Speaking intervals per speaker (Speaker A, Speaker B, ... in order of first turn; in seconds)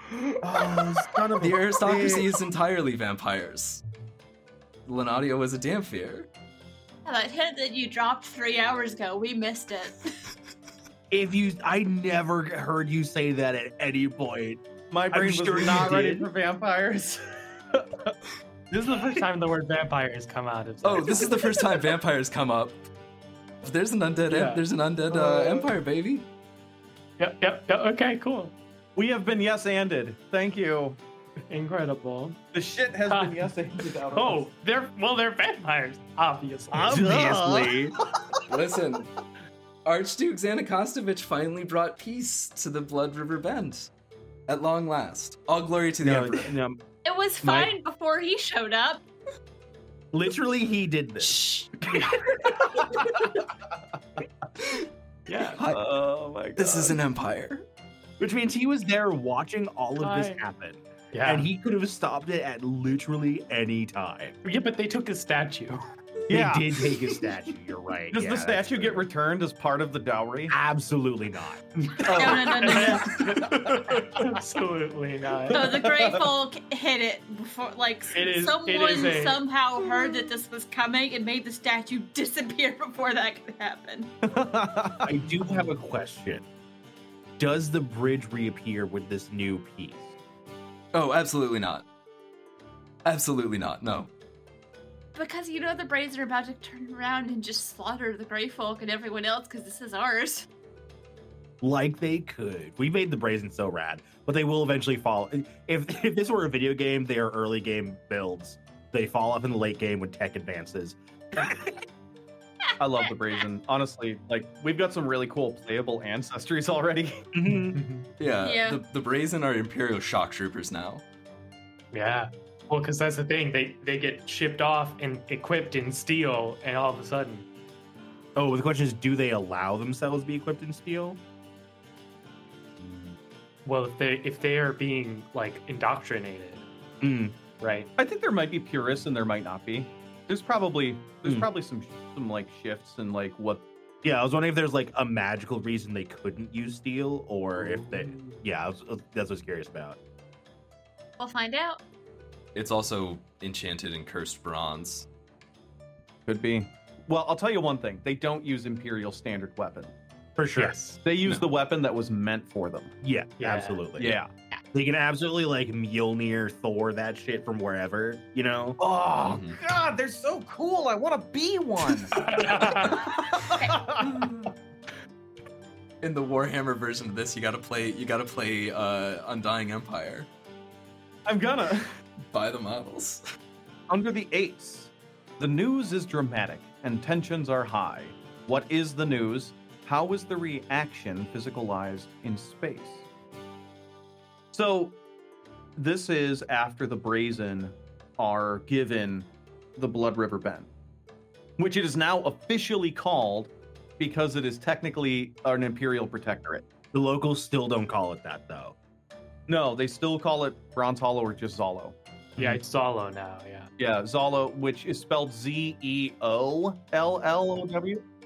Speaker A: 0.4-2.2, 11.1-14.6, 15.1-16.3, 36.7-37.9, 46.0-46.8, 50.1-53.1, 58.2-64.4, 66.3-69.0, 70.5-71.6, 73.2-74.2, 85.0-86.4, 87.4-90.0, 101.6-111.7, 117.3-117.8, 128.3-131.2, 132.8-133.2, 137.0-137.6, 144.0-150.0, 160.4-161.4, 163.0-164.2, 164.7-168.8, 206.9-208.7
Speaker B: 1.4-3.8, 4.8-6.3, 20.8-22.8, 23.6-26.2, 38.5-39.1, 39.8-43.9, 44.5-46.5, 51.2-51.7, 55.5-55.8, 56.6-57.6, 90.9-91.8, 93.0-94.1, 118.2-121.0, 152.5-155.1, 169.2-169.6, 172.3-172.9, 176.0-180.3, 182.3-183.2
Speaker C: 7.0-10.1, 47.0-49.0, 72.1-73.1, 75.5-84.1, 95.1-100.5, 118.4-118.8, 151.2-151.8
Speaker D: 14.9-18.0, 25.1-25.7, 28.9-31.0, 32.5-34.4, 36.7-38.4, 55.6-57.0, 66.3-66.6, 68.1-70.5, 72.0-73.8, 75.5-76.2, 84.2-85.1, 112.8-117.2, 138.0-143.6, 156.2-159.9, 161.0-162.9, 163.9-164.3, 168.8-172.1, 173.3-174.5, 181.2-182.0, 183.9-193.0, 194.5-194.9, 195.8-200.7, 201.6-206.6, 209.5-211.9, 213.8-218.0
Speaker E: 18.8-21.6, 24.3-24.6, 27.2-28.5, 31.5-32.4, 33.1-33.5, 34.1-37.1, 55.3-55.6, 60.0-60.4, 61.1-61.5, 64.4-65.8, 72.5-73.4, 74.2-75.6, 78.1-79.4, 117.5-118.0, 121.9-127.5, 133.6-136.7, 137.5-137.9, 147.8-148.4, 160.6-161.0, 163.4-163.8, 172.1-173.0, 212.4-213.7